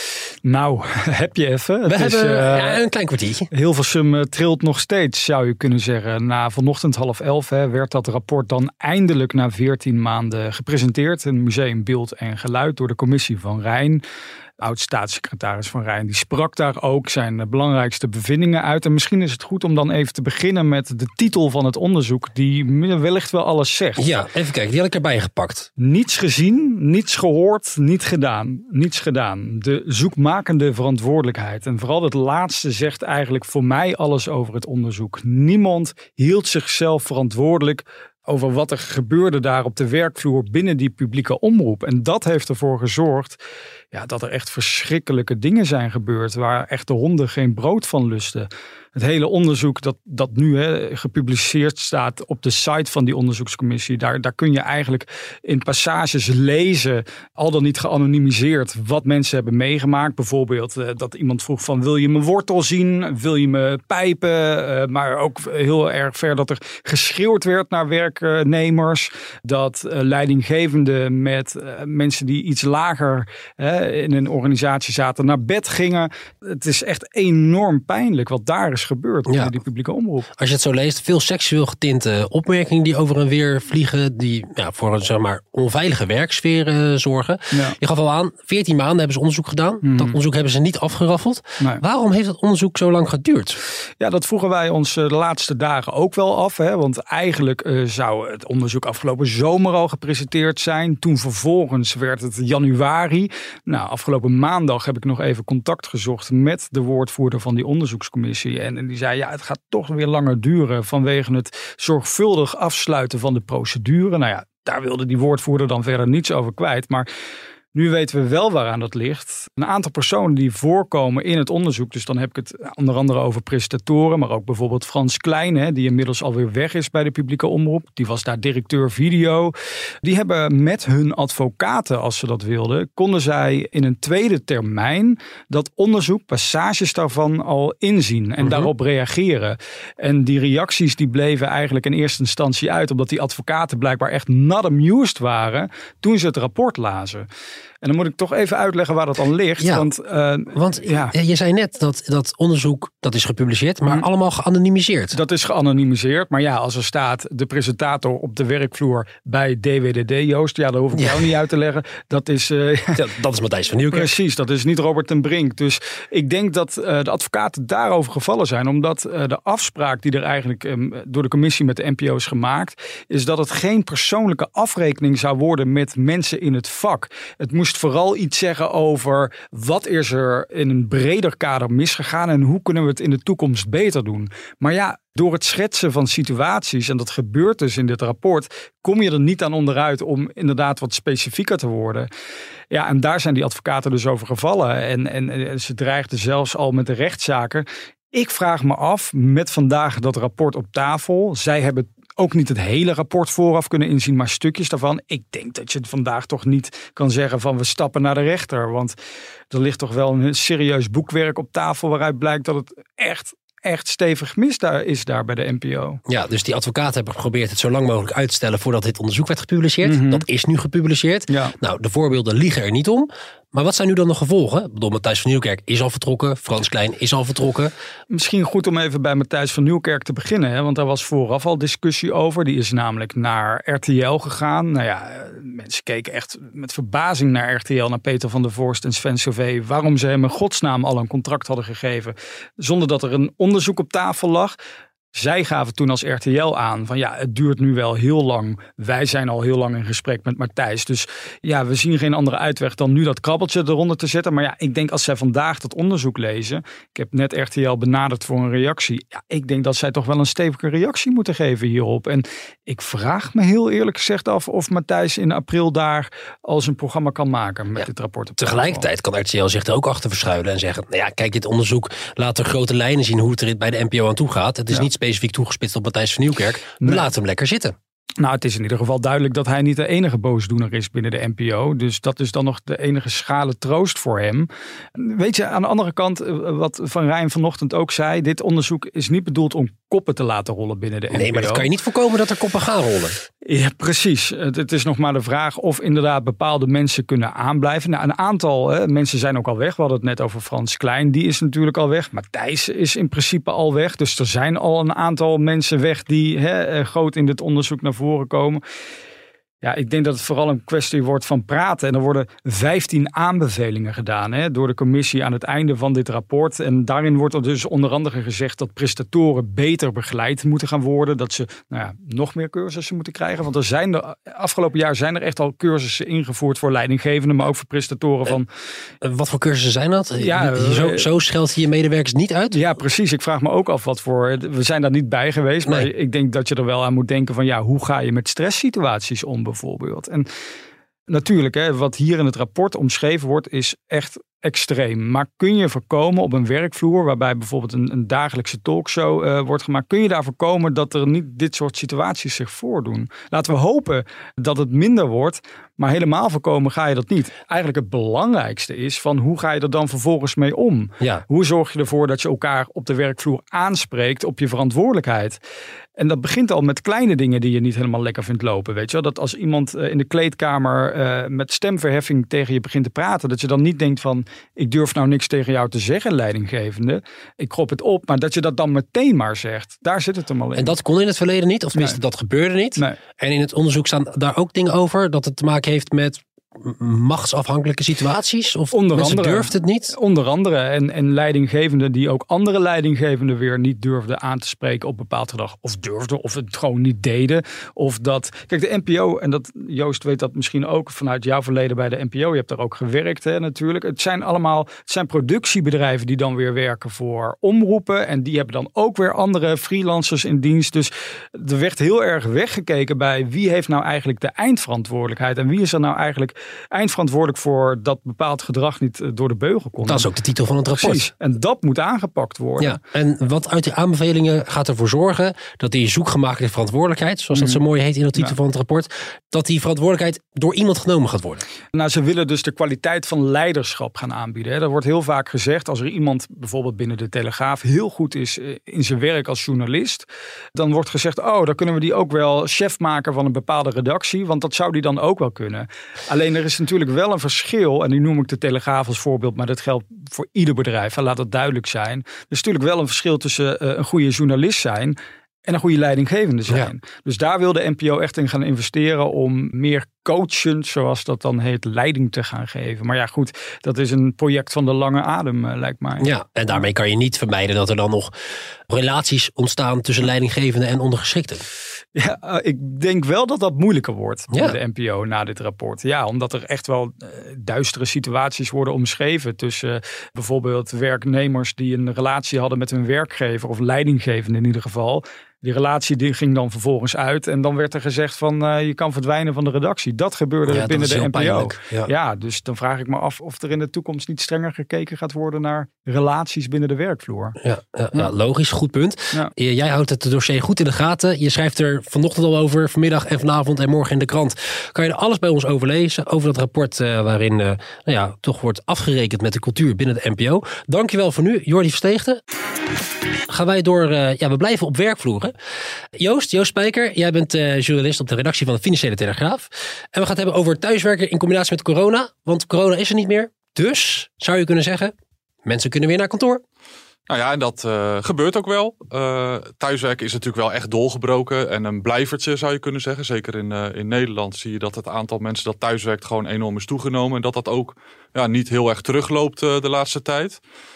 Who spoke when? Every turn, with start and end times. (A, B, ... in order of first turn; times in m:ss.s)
0:00.4-0:02.8 A
0:01.8-0:03.5 B
0:03.5-0:14.0 A
0:14.6-0:24.1 A
0:24.0-0:25.7 B
0:25.8-0:43.4 A
0:43.9-1:20.3 A
1:19.3-1:19.5 B
1:20.4-1:33.6 B
1:27.5-1:27.8 A
1:29.8-1:30.2 A
1:34.0-1:57.1 A
1:57.7-2:27.2 A
2:18.4-2:18.7 B
2:27.8-2:31.1 A
2:29.6-2:29.9 B
2:30.5-2:35.2 B
2:35.1-2:43.0 A
2:40.9-2:41.3 B
2:42.9-2:44.1 B
2:43.9-3:12.1 A
3:12.7-3:29.0 A
3:29.5-3:36.0 A
3:36.1-3:47.7 B
3:39.8-3:40.2 A
3:41.3-3:41.5 A
3:48.1-4:04.6 A
4:05.1-4:28.9 A
4:27.8-4:37.7 B
4:36.8-4:37.1 A
4:38.2-4:51.7 A
4:51.1-4:53.2 B
4:53.4-5:08.6 A
5:09.6-5:28.5 A
5:29.0-5:32.6 B
5:30.2-5:31.1 A
5:32.5-5:40.3 A
5:41.1-6:05.4 A
6:06.0-6:20.8 A
6:20.6-6:29.9 B
6:21.7-6:22.0 A
6:28.7-7:00.1 A
6:59.8-7:01.1 B
7:00.8-7:02.8 A
7:02.6-7:11.4 B
7:07.3-7:07.6 A
7:11.7-7:46.6 A
7:46.0-7:48.1 B
7:48.7-7:51.5 B
7:51.9-8:17.4 A
7:54.3-7:54.6 B
8:10.5-8:11.9 B
8:17.4-8:32.2 B
8:33.3-8:35.3 B
8:36.0-8:44.9 B
8:45.4-8:46.4 B
8:47.1-9:00.4 C